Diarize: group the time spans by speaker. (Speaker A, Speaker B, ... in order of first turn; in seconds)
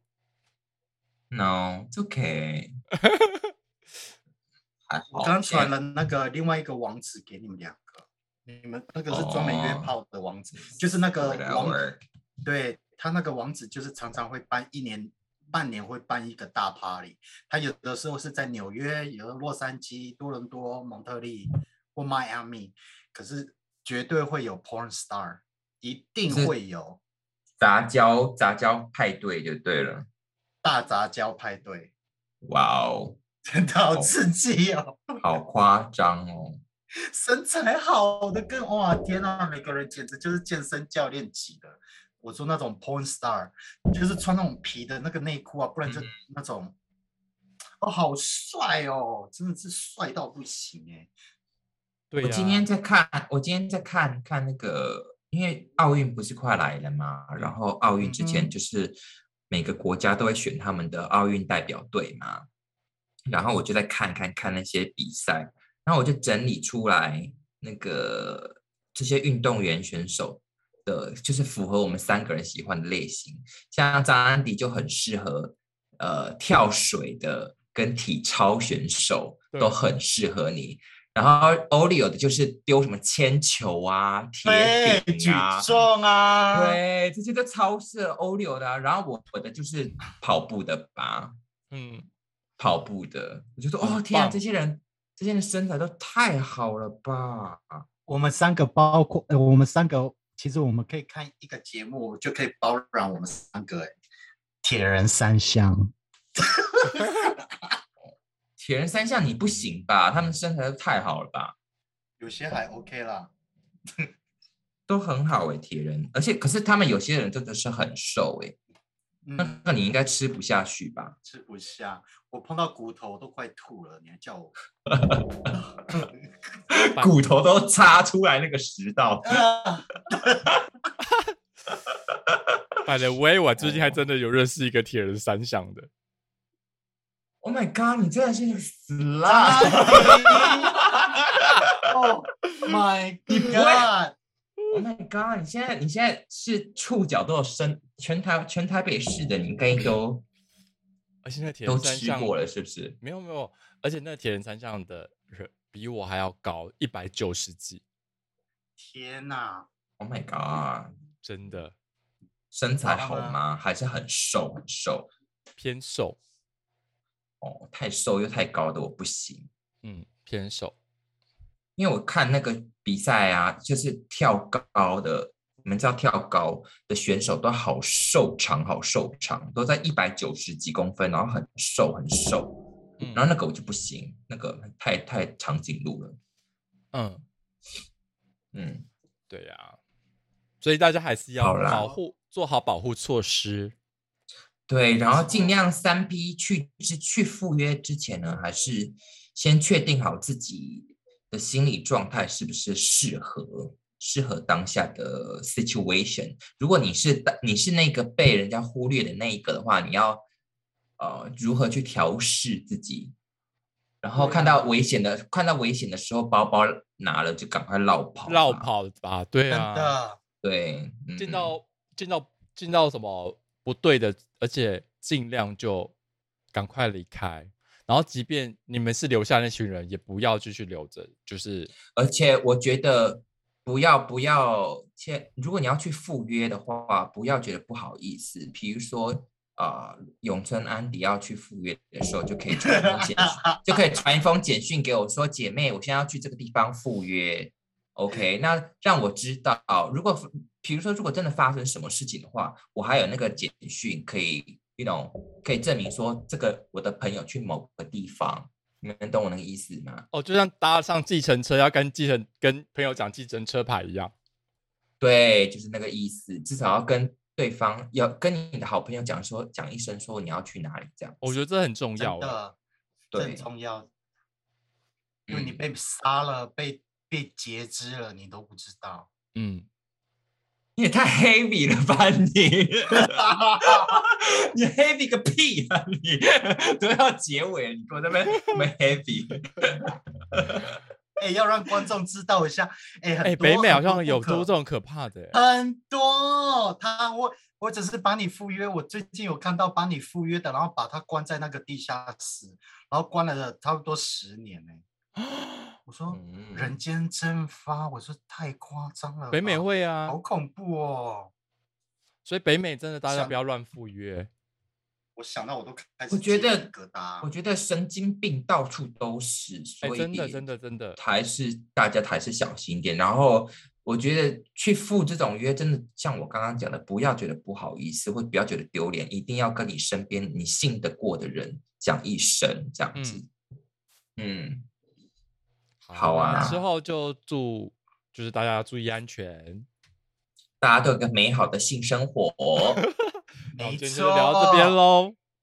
Speaker A: 1.3-2.7, 4.9-5.7, 9.1-9.9, 10.8-12.0, 26.3-26.5, 27.6-30.1, 32.4-33.2, 35.2-36.6, 45.9-46.1, 52.2-59.0, 59.5-62.4, 63.3-85.9, 86.5-91.3, 92.6-97.8, 108.0-111.5, 114.9-118.6, 119.4-121.1, 124.9-125.5, 126.7-129.4, 132.1-132.5, 133.6-134.0, 137.4-141.6, 143.3-143.9, 144.7-150.2, 151.7-153.0, 160.0-160.9, 162.5-165.1, 167.4-169.5, 171.8-182.6, 183.1-186.2, 188.5-188.9, 191.4-191.9, 194.7-210.2, 211.0-213.1, 214.0-218.7, 220.4-221.5, 231.9-260.1, 265.0-271.3, 273.1-273.4, 275.3-275.6, 280.8-290.8, 306.1-306.8, 316.1-320.4, 320.9-333.3, 334.2-334.7, 335.9-336.6, 340.6-342.8
Speaker B: 3.0-3.5, 52.1-52.7, 79.5-79.8, 91.7-92.0, 93.8-94.4, 132.8-135.9, 151.2-152.3, 153.0-157.8, 161.2-161.7, 165.6-166.2, 169.8-170.7, 183.0-183.3, 186.9-187.2, 189.3-189.8, 190.6-193.7, 195.1-195.6, 214.2-214.6, 218.3-219.9, 221.2-225.9, 226.5-231.7, 260.1-264.1, 271.2-272.4, 279.3-279.7, 293.2-295.4, 305.2-305.7, 309.3-310.2, 312.2-314.3, 319.8-321.0, 332.9-333.2, 335.8-339.6, 342.7-345.1
Speaker C: 5.1-11.8, 12.4-27.0, 30.6-31.9, 33.5-35.2, 37.0-46.7, 47.8-51.1, 58.0-58.5, 84.4-86.8, 98.1-103.9, 104.6-107.7, 112.2-113.3, 119.2-119.6, 121.2-124.5, 125.5-126.2, 129.2-130.4, 139.2-141.1, 141.8-144.1, 158.8-159.7, 162.8-163.4, 219.5-220.2, 242.5-243.8, 272.0-272.6, 273.1-273.9, 275.3-279.1, 283.0-284.0, 291.2-294.5, 295.3-304.8, 305.9-311.3, 313.1-313.4, 315.1-317.3, 336.2-336.6, 343.5-344.8